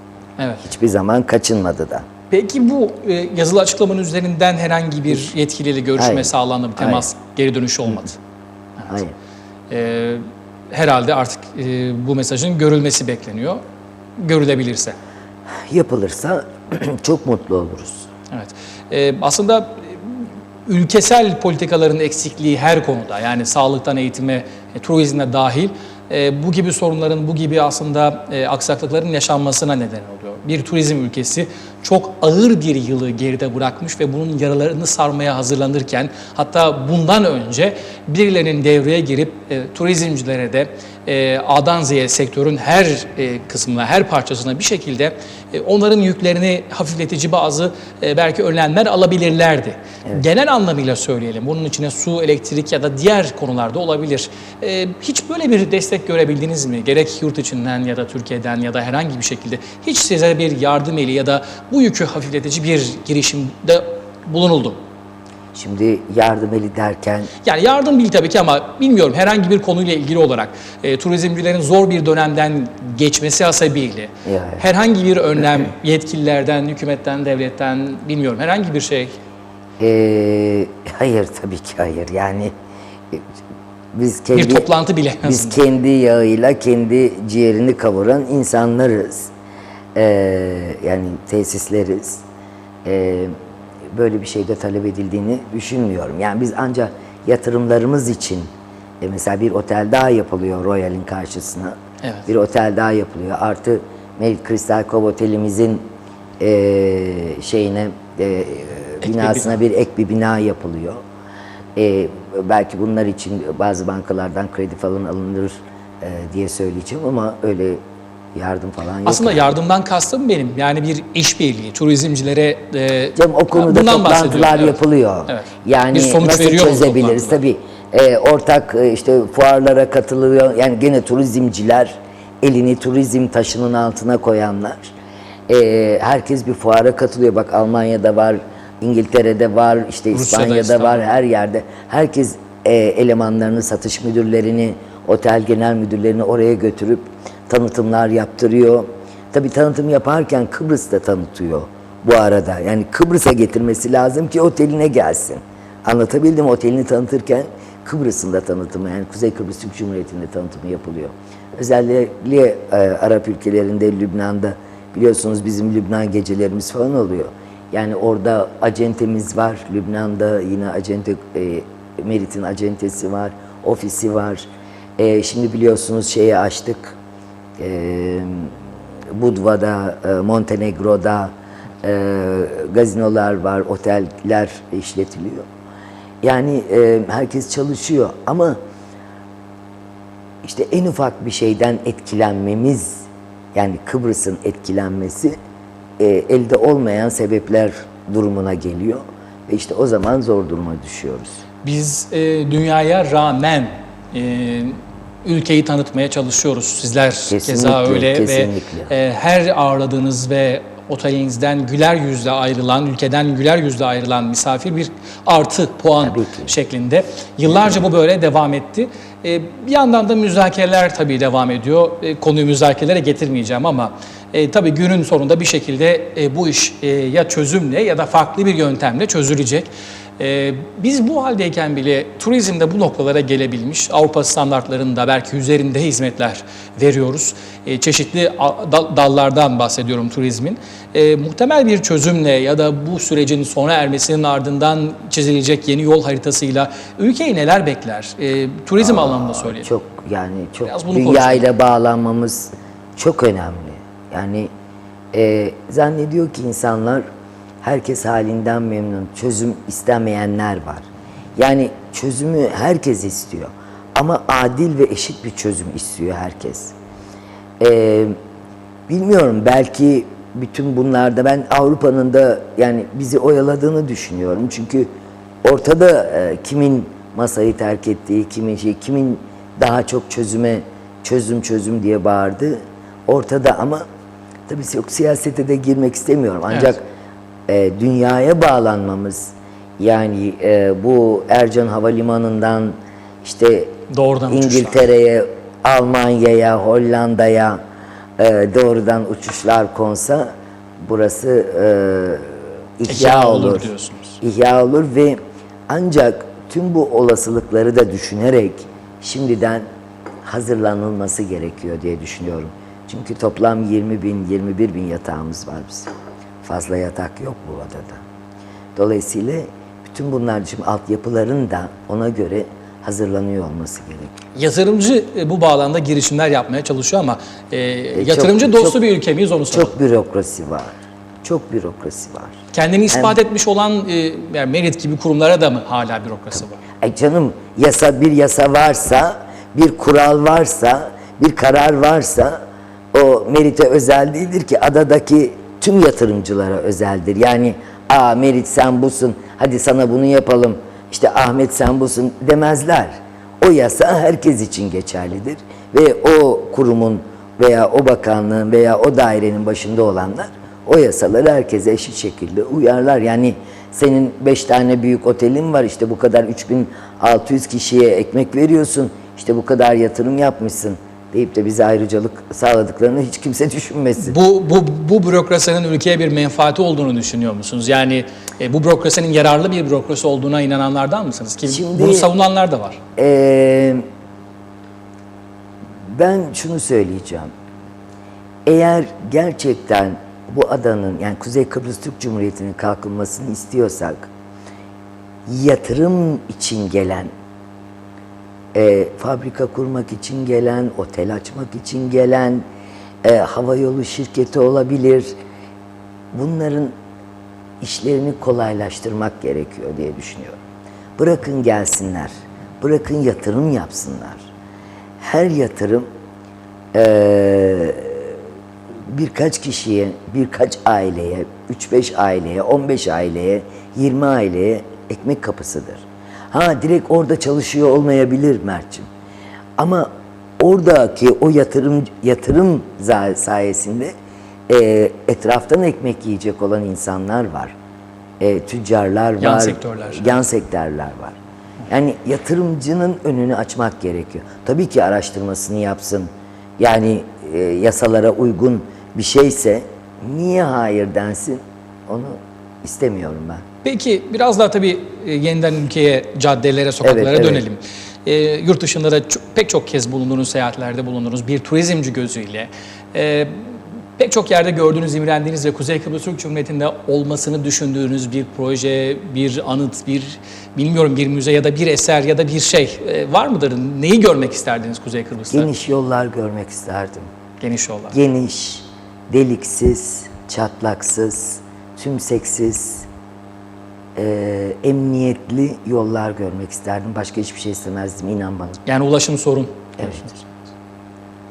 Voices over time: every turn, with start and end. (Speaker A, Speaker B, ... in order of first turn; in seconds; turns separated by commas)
Speaker A: 0.4-0.6, Speaker B: 0.6-2.1, Speaker A: 2.3-8.2, Speaker B: 6.0-7.0, Speaker B: 8.9-9.1, Speaker A: 9.7-13.6, Speaker A: 14.2-15.0, Speaker B: 15.5-18.1, Speaker A: 18.3-64.8, Speaker B: 65.5-67.3, Speaker A: 67.4-79.2, Speaker B: 74.2-74.6, Speaker B: 79.8-82.5, Speaker B: 83.9-84.7, Speaker A: 84.3-85.6, Speaker B: 85.2-89.3, Speaker B: 89.9-92.2, Speaker B: 92.8-93.3, Speaker B: 93.9-98.5, Speaker B: 99.0-105.9, Speaker A: 102.0-102.3, Speaker B: 106.4-111.0, Speaker A: 109.0-109.6, Speaker B: 111.8-117.8, Speaker B: 118.3-119.5, Speaker A: 119.0-127.4, Speaker B: 123.2-134.9, Speaker B: 135.5-177.0, Speaker A: 140.1-141.1, Speaker B: 177.6-178.6, Speaker B: 179.1-185.5, Speaker B: 186.2-188.6, Speaker B: 190.4-195.3, Speaker B: 196.0-201.4, Speaker A: 201.6-249.7, Speaker B: 207.3-208.9, Speaker B: 216.0-216.5, Speaker B: 248.8-254.5, Speaker A: 250.6-251.5, Speaker B: 255.1-257.0, Speaker B: 257.6-266.7, Speaker B: 267.6-268.1, Speaker B: 268.9-274.9, Speaker B: 275.4-283.8, Speaker B: 284.5-286.8, Speaker B: 287.5-293.8, Speaker A: 293.9-294.9, Speaker B: 294.3-297.6, Speaker B: 298.2-303.7, Speaker A: 302.9-304.2, Speaker B: 304.2-309.6, Speaker B: 310.2-315.9, Speaker B: 316.4-318.0, Speaker B: 318.7-324.2, Speaker A: 324.3-329.7, Speaker B: 327.9-328.8, Speaker B: 329.5-332.4, Speaker A: 332.5-336.6, Speaker B: 332.9-333.1, Speaker B: 336.8-342.4, Speaker B: 342.9-374.1, Speaker A: 374.0-382.8, Speaker B: 381.4-382.1, Speaker B: 383.0-383.8, Speaker B: 385.9-387.3, Speaker B: 388.4-394.1, Speaker B: 395.3-397.1, Speaker B: 398.5-402.4, Speaker B: 403.0-405.1, Speaker B: 406.1-406.7, Speaker B: 407.6-410.4, Speaker B: 411.0-414.3, Speaker B: 415.0-415.9, Speaker B: 416.7-418.2, Speaker B: 418.9-428.9, Speaker B: 429.6-433.9, Speaker B: 434.5-437.6, Speaker B: 438.2-453.4, Speaker A: 439.2-440.2, Speaker A: 453.6-463.4, Speaker B: 456.8-457.4, Speaker A: 464.0-475.5, Speaker B: 475.3-477.1, Speaker A: 477.4-478.0, Speaker B: 477.9-482.9, Speaker B: 483.9-488.6, Speaker A: 488.6-490.4